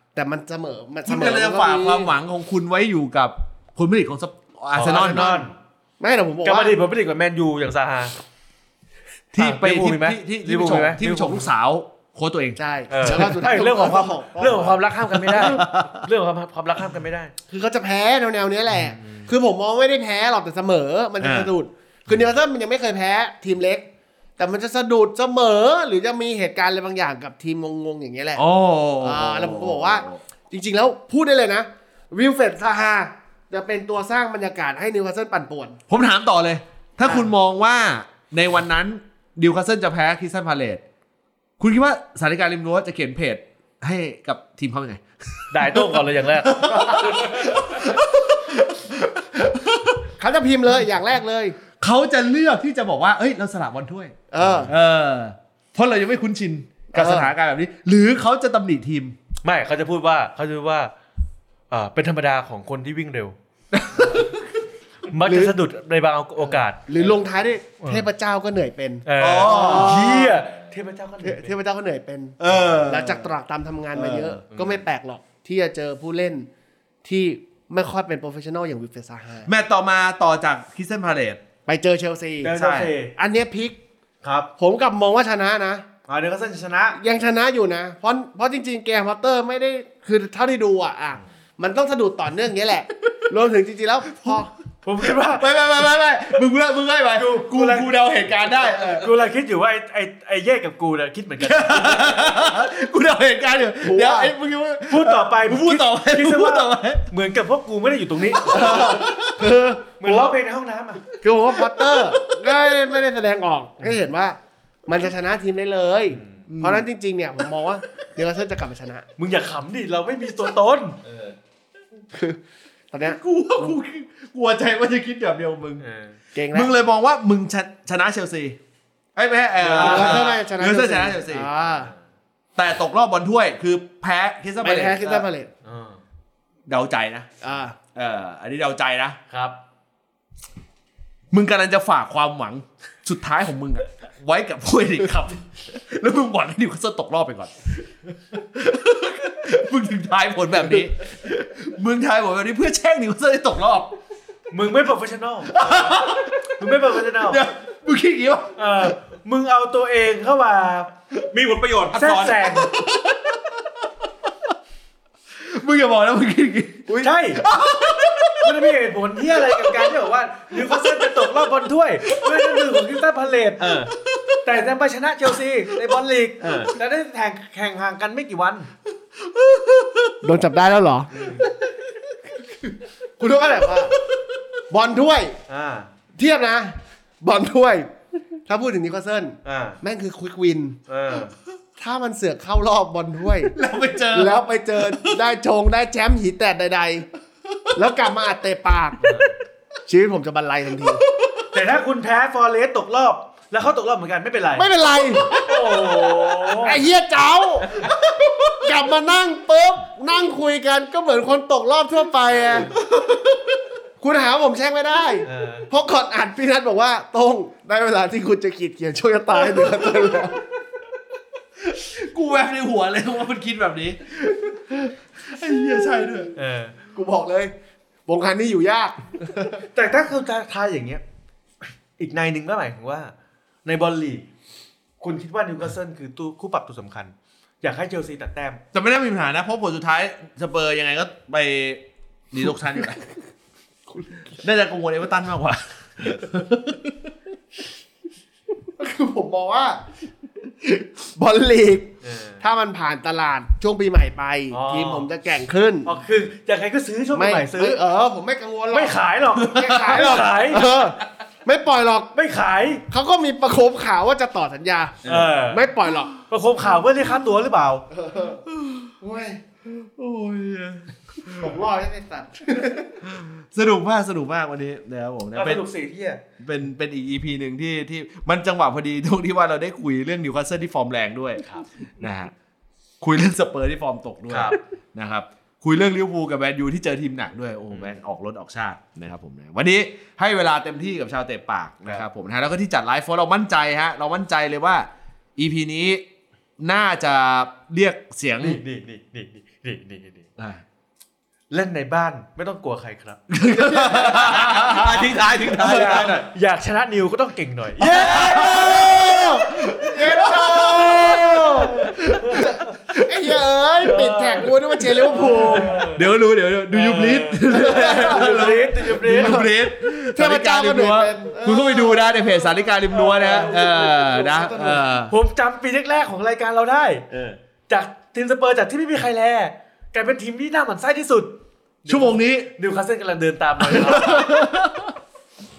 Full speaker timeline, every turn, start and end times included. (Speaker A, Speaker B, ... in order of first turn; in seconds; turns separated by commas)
Speaker A: 0.1-2.1, Speaker B: 1.1-5.5, Speaker C: 4.7-5.6, Speaker A: 4.8-5.3, Speaker A: 6.0-6.8, Speaker C: 6.4-8.2, Speaker C: 9.3-11.5, Speaker B: 9.3-13.4, Speaker A: 12.6-15.6, Speaker C: 12.9-17.3, Speaker B: 15.1-16.1, Speaker A: 17.5-28.4, Speaker C: 18.8-19.3, Speaker B: 21.2-21.5, Speaker B: 28.4-30.2, Speaker A: 29.0-35.8, Speaker B: 35.9-40.8, Speaker A: 37.0-37.3, Speaker B: 41.6-50.1, Speaker C: 45.5-47.0, Speaker A: 46.7-47.2, Speaker A: 50.2-51.6, Speaker B: 51.8-59.2, Speaker A: 54.3-54.7, Speaker C: 54.4-54.7, Speaker A: 56.9-57.3, Speaker C: 59.4-60.9, Speaker C: 61.7-63.4, Speaker B: 63.7-64.5, Speaker C: 65.1-66.8, Speaker A: 66.9-70.4, Speaker C: 67.8-68.1, Speaker C: 69.0-71.5, Speaker B: 69.2-70.2, Speaker A: 71.2-76.5, Speaker B: 72.4-73.3, Speaker B: 73.9-74.4, Speaker C: 74.5-74.8, Speaker A: 77.0-79.5, Speaker B: 79.5-81.4, Speaker A: 81.7-82.6, Speaker C: 82.4-83.1, Speaker B: 82.5-82.9, Speaker A: 83.2-83.8, Speaker C: 84.2-84.5, Speaker A: 84.6-85.9, Speaker C: 86.1-87.0, Speaker A: 87.0-94.5, Speaker C: 94.8-95.5, Speaker B: 95.0-99.0, Speaker C: 97.2-97.9, Speaker C: 98.9-102.4, Speaker B: 101.4-107.0, Speaker A: 103.8-104.3, Speaker C: 104.9-109.1, Speaker B: 108.4-109.5, Speaker A: 108.6-110.2, Speaker C: 110.0-111.0, Speaker A: 111.2-119.1, Speaker C: 116.1-116.4, Speaker B: 116.5-116.9, Speaker C: 119.2-121.0, Speaker D: 121.1-121.3, Speaker A: 122.1-122.4, Speaker A: 122.9-123.7, Speaker B: 123.0-125.8, Speaker C: 125.8-126.2, Speaker A: 126.3-126.7, Speaker B: 126.5-128.6, Speaker B: 129.2-131.5, Speaker C: 129.6-130.4, Speaker A: 129.7-131.9, Speaker C: 131.7-132.0, Speaker B: 132.6-135.3, Speaker A: 134.6-135.5, Speaker C: 135.6-136.0, Speaker B: 136.7-137.3, Speaker A: 137.4-137.8, Speaker B: 137.9-139.2, Speaker C: 139.3-139.6, Speaker B: 141.3-147.5, Speaker B: 148.3-153.9, Speaker C: 154.5-157.4, Speaker B: 155.5-158.9, Speaker C: 158.6-160.9, Speaker D: 161.3-162.5, Speaker C: 161.9-162.7, Speaker B: 162.5-163.8, Speaker B: 165.4-168.6, Speaker C: 166.9-167.4, Speaker C: 168.4-173.8, Speaker B: 169.3-169.9, Speaker B: 170.5-171.3, Speaker B: 172.1-172.8, Speaker D: 173.6-173.9, Speaker B: 173.9-174.4, Speaker C: 174.4-178.7, Speaker B: 175.7-176.0, Speaker D: 176.4-176.7, Speaker B: 179.3-180.1, Speaker A: 180.2-181.2, Speaker C: 181.1-181.5, Speaker A: 182.7-184.0, Speaker A: 184.7-185.4, Speaker C: 185.5-185.9, Speaker A: 186.2-187.9, Speaker A: 188.5-190.8, Speaker C: 189.4-189.8, Speaker C: 190.9-191.3, Speaker A: 191.8-193.6, Speaker B: 193.4-195.2, Speaker A: 194.1-197.1, Speaker A: 197.8-199.1, Speaker C: 199.0-199.3, Speaker A: 199.9-201.0, Speaker C: 201.5-204.7, Speaker A: 204.6-205.4, Speaker C: 205.3-206.8, Speaker A: 206.6-213.3, Speaker A: 214.0-220.4, Speaker C: 215.2-215.7, Speaker B: 219.5-220.0, Speaker B: 221.6-226.3, Speaker C: 226.4-226.8, Speaker A: 226.9-227.5, Speaker A: 228.1-229.7, Speaker C: 229.7-231.0, Speaker C: 232.0-233.1, Speaker C: 233.7-234.3, Speaker C: 235.0-238.6, Speaker B: 238.7-243.0, Speaker B: 244.4-247.1, Speaker A: 248.8-249.8, Speaker A: 250.6-255.9, Speaker C: 252.0-252.4, Speaker C: 254.5-255.1, Speaker C: 255.8-257.8, Speaker A: 257.1-262.1, Speaker C: 258.7-260.7, Speaker B: 259.4-260.2, Speaker C: 262.1-262.9, Speaker A: 262.9-265.0, Speaker D: 265.1-265.3, Speaker C: 265.1-265.7, Speaker A: 265.5-266.1, Speaker C: 266.3-267.9, Speaker A: 267.9-268.4, Speaker B: 268.5-268.9, Speaker A: 269.0-269.4, Speaker B: 269.6-271.6, Speaker A: 271.4-272.9, Speaker B: 273.0-275.7, Speaker C: 275.3-276.2, Speaker B: 276.4-281.5, Speaker B: 282.0-282.3, Speaker B: 283.0-296.0, Speaker C: 284.3-284.6, Speaker B: 296.6-298.6, Speaker C: 298.4-300.3, Speaker C: 301.5-303.2, Speaker B: 303.3-306.1, Speaker A: 303.4-304.3, Speaker C: 303.7-304.9, Speaker D: 304.2-306.3, Speaker C: 305.6-308.6, Speaker B: 307.8-314.1, Speaker A: 307.9-315.8, Speaker C: 312.2-312.6, Speaker C: 313.8-314.5, Speaker B: 314.8-325.1, Speaker C: 315.1-316.1, Speaker C: 316.7-319.5, Speaker A: 317.5-318.6, Speaker A: 319.1-319.5, Speaker A: 320.1-324.9, Speaker C: 322.9-324.4, Speaker C: 325.1-327.1, Speaker D: 327.1-327.4, Speaker C: 327.7-334.4, Speaker B: 331.9-332.5, Speaker B: 333.6-335.0